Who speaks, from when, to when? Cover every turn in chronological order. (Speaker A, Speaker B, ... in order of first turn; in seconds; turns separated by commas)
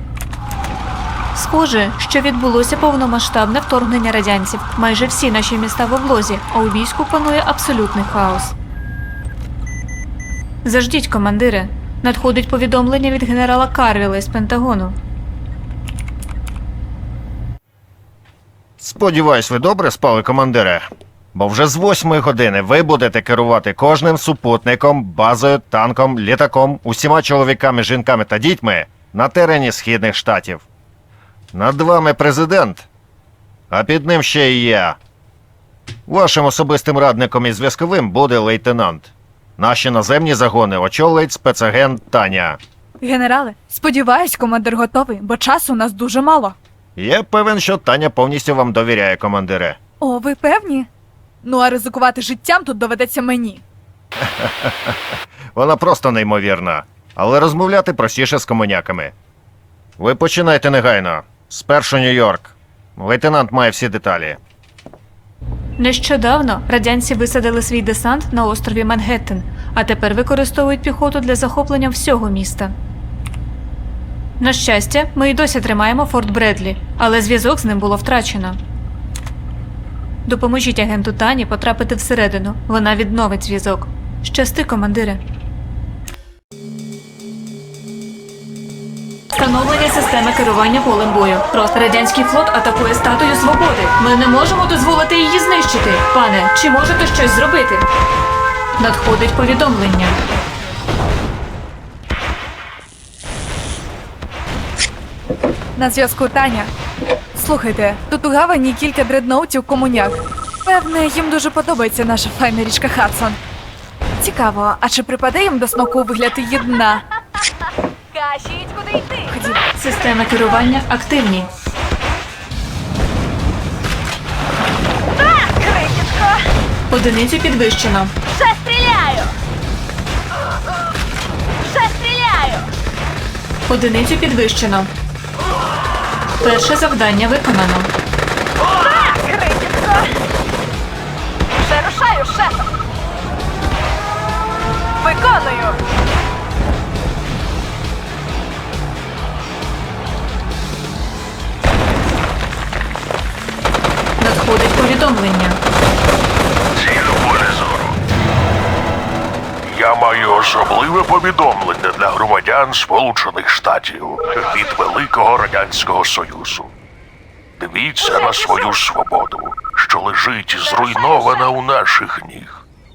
Speaker A: 1.3-8.5, Speaker A: 10.6-15.0, Speaker B: 18.8-30.6, Speaker B: 31.5-32.9, Speaker B: 33.7-35.0, Speaker B: 36.1-42.6, Speaker C: 43.0-46.5, Speaker B: 47.0-49.8, Speaker C: 50.0-50.9, Speaker C: 51.4-53.6, Speaker B: 54.2-55.0, Speaker B: 55.5-59.1, Speaker B: 60.0-64.4, Speaker A: 65.8-72.7, Speaker A: 74.4-78.6, Speaker A: 80.2-85.2, Speaker A: 89.3-97.9, Speaker A: 98.8-100.2, Speaker C: 105.8-106.7, Speaker C: 107.3-113.4, Speaker C: 114.2-117.0, Speaker D: 118.1-119.3, Speaker C: 119.3-119.6, Speaker A: 119.8-121.5, Speaker D: 125.3-126.4, Speaker A: 126.9-128.1, Speaker D: 128.3-129.3, Speaker D: 131.6-132.7, Speaker A: 133.7-134.9, Speaker A: 136.4-137.9, Speaker D: 138.8-140.1, Speaker D: 141.6-142.7, Speaker D: 145.0-145.8, Speaker A: 154.2-155.6, Speaker E: 156.8-158.0, Speaker E: 159.6-166.7, Speaker E: 167.6-172.6